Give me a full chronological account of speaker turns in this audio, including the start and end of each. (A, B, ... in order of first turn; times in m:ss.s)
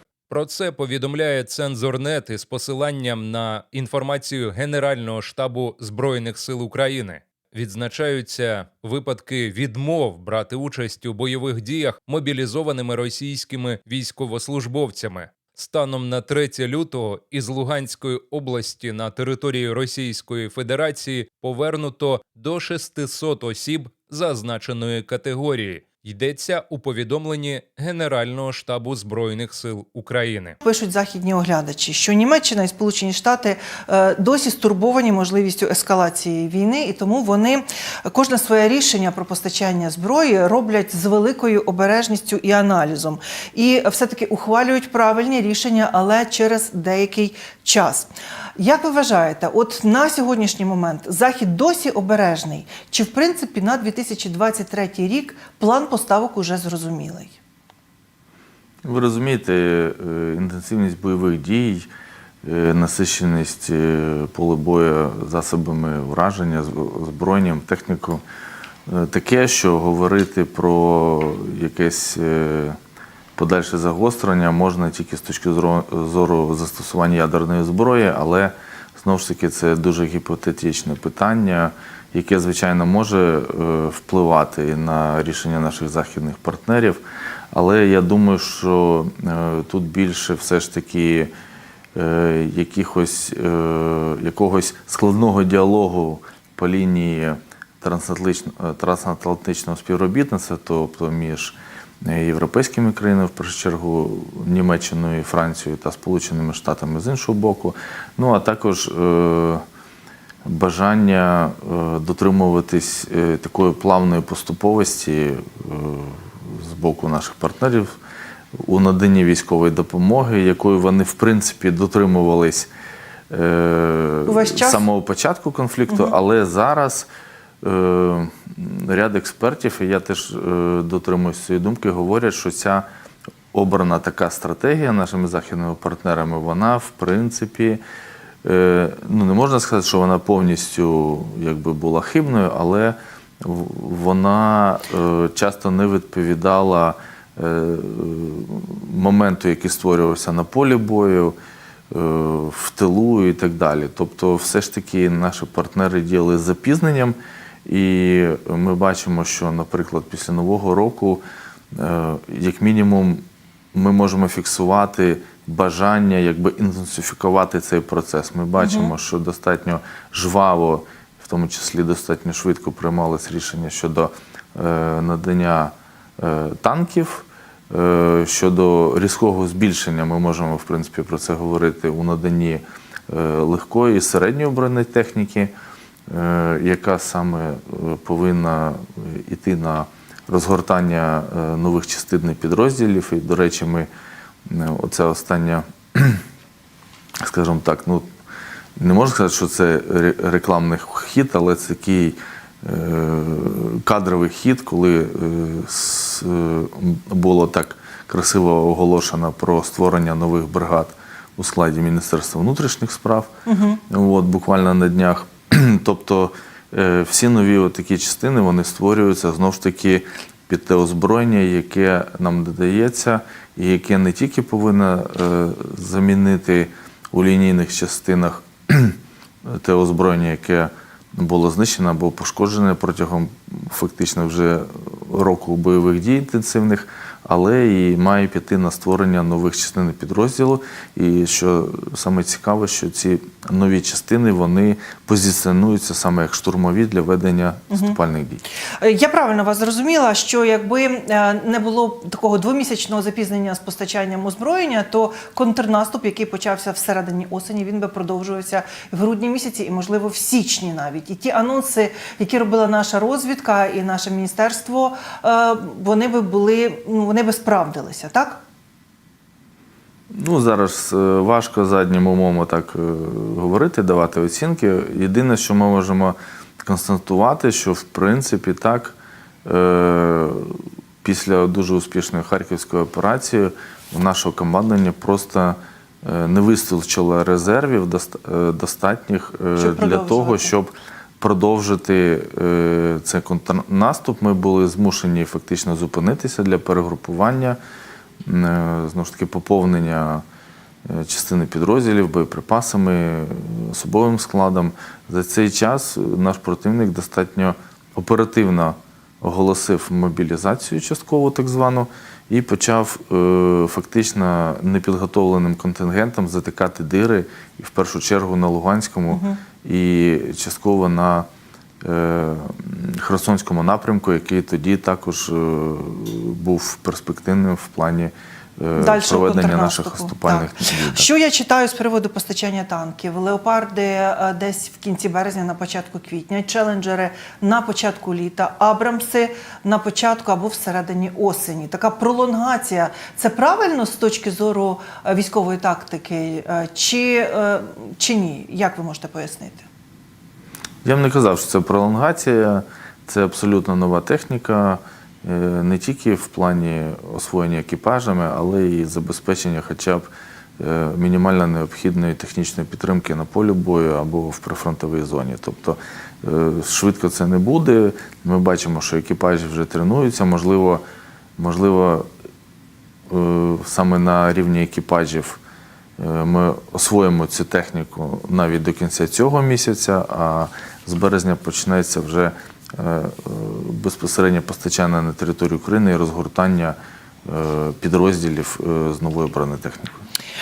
0:00.3-0:30.6 A
0:30.6-0:57.3 B
0:58.8-1:01.9 C
1:02.4-1:08.2 C
1:08.9-1:12.8 C
1:13.4-1:31.3 C
1:32.0-1:49.6 C
1:50.4-1:57.9 C
1:58.6-2:02.7 C
2:03.3-2:07.1 C
2:04.2-2:04.8 B
2:07.6-2:12.9 C
2:13.5-2:17.8 C
2:18.4-2:31.4 C
2:31.9-2:41.2 C
2:41.7-2:43.2 C
2:43.7-3:05.5 C
2:48.6-2:48.9 B
3:06.1-3:13.9 C
3:14.5-3:16.2 C
3:17.2-3:18.1 C
3:18.8-3:33.3 C
3:33.4-3:33.8 B
3:33.9-4:08.4 C
4:08.8-4:28.4 B
4:30.1-4:57.6 C
4:49.6-4:50.5 B
4:58.2-5:00.2 C
5:00.9-5:21.3 C
5:19.1-5:19.4 B
5:21.8-5:31.1 C
5:28.8-5:49.6 B
5:50.8-6:00.1 C
6:00.6-6:10.8 C
6:11.4-6:12.1 C
6:13.1-6:15.4 C
6:16.0-6:30.0 C